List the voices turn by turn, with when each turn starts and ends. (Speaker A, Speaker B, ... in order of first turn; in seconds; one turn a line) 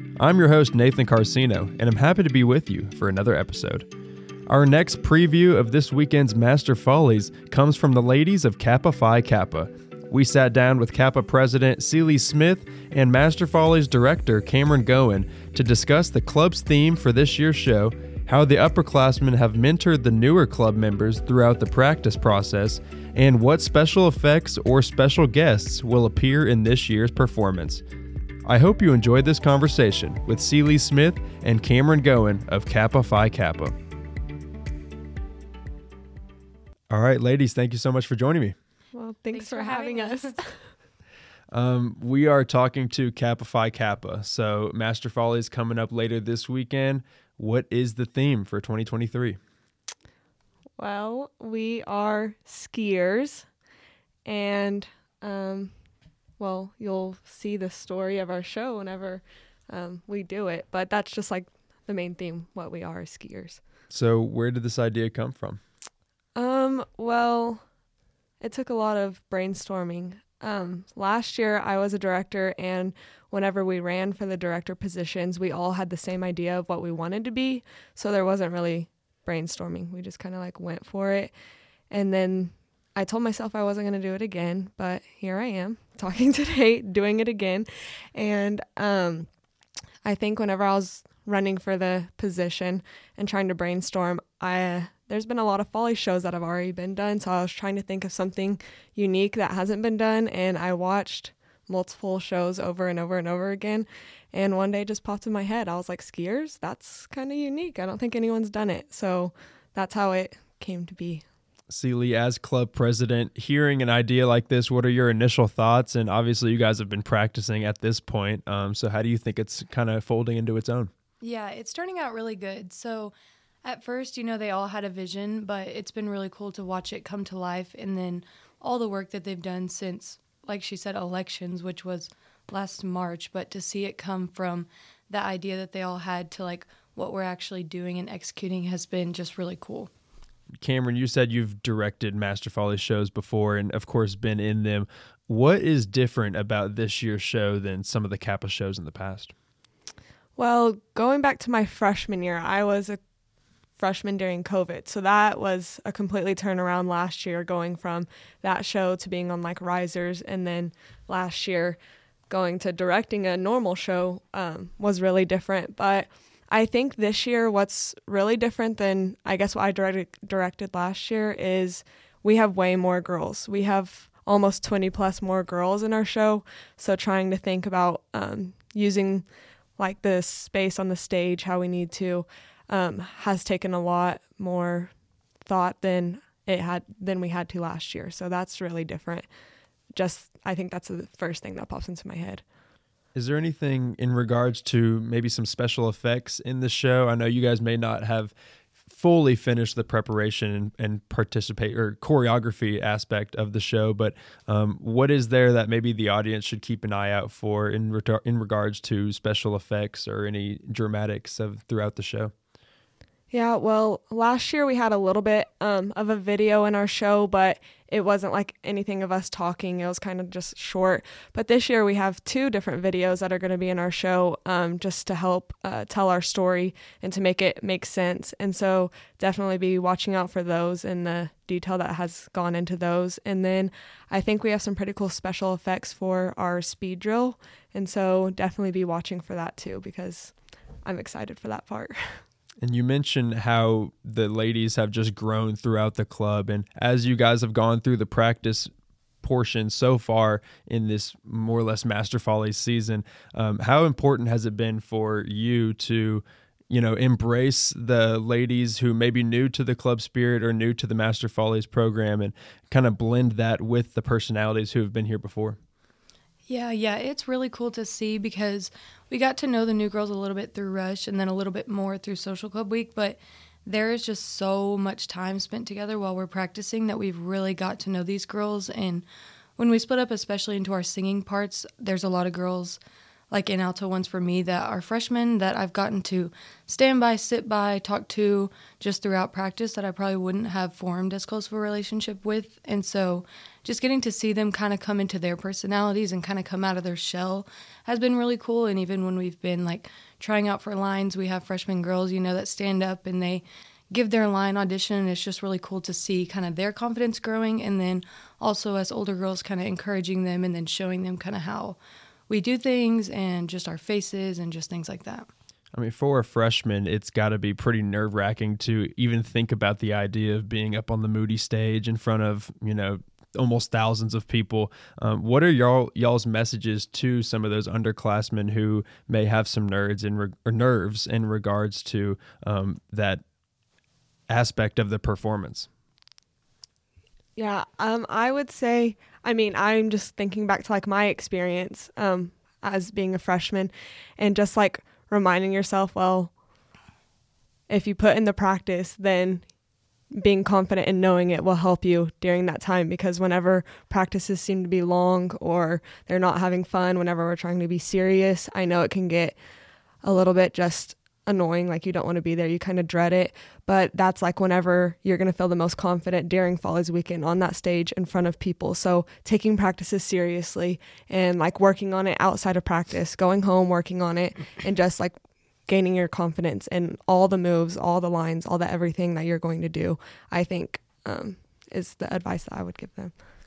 Speaker A: 0.2-3.9
Speaker A: 4.5-27.8
Speaker A: 28.4-33.7
Speaker A: 36.9-38.5
Speaker B: 38.9-40.4
Speaker C: 39.3-40.4
Speaker A: 41.5-49.4
Speaker B: 50.8-53.5
Speaker B: 54.2-55.7
Speaker B: 56.4-63.6
Speaker A: 63.9-65.6
Speaker B: 66.3-67.6
Speaker B: 68.4-81.3
Speaker B: 81.9-89.3
Speaker B: 90.0-111.2
Speaker A: 111.7-120.9
Speaker C: 121.2-123.1
Speaker C: 123.6-139.9
Speaker A: 140.6-149.3
Speaker B: 150.4-153.0
Speaker B: 153.8-161.8
Speaker B: 162.3-179.2
Speaker B: 179.8-184.9
Speaker B: 185.4-189.3
Speaker B: 189.9-192.4
Speaker A: 193.1-198.3
Speaker A: 198.9-212.3
Speaker B: 213.3-242.2
Speaker A: 242.6-248.7
Speaker A: 249.2-265.6
Speaker C: 266.5-279.1
Speaker C: 279.6-282.8
Speaker C: 283.3-315.3
Speaker A: 315.7-333.2
Speaker A: 334.3-335.7
Speaker B: 337.4-346.3
Speaker B: 347.7-349.4
Speaker B: 350.1-359.4
Speaker B: 360.0-375.1
Speaker B: 375.7-383.1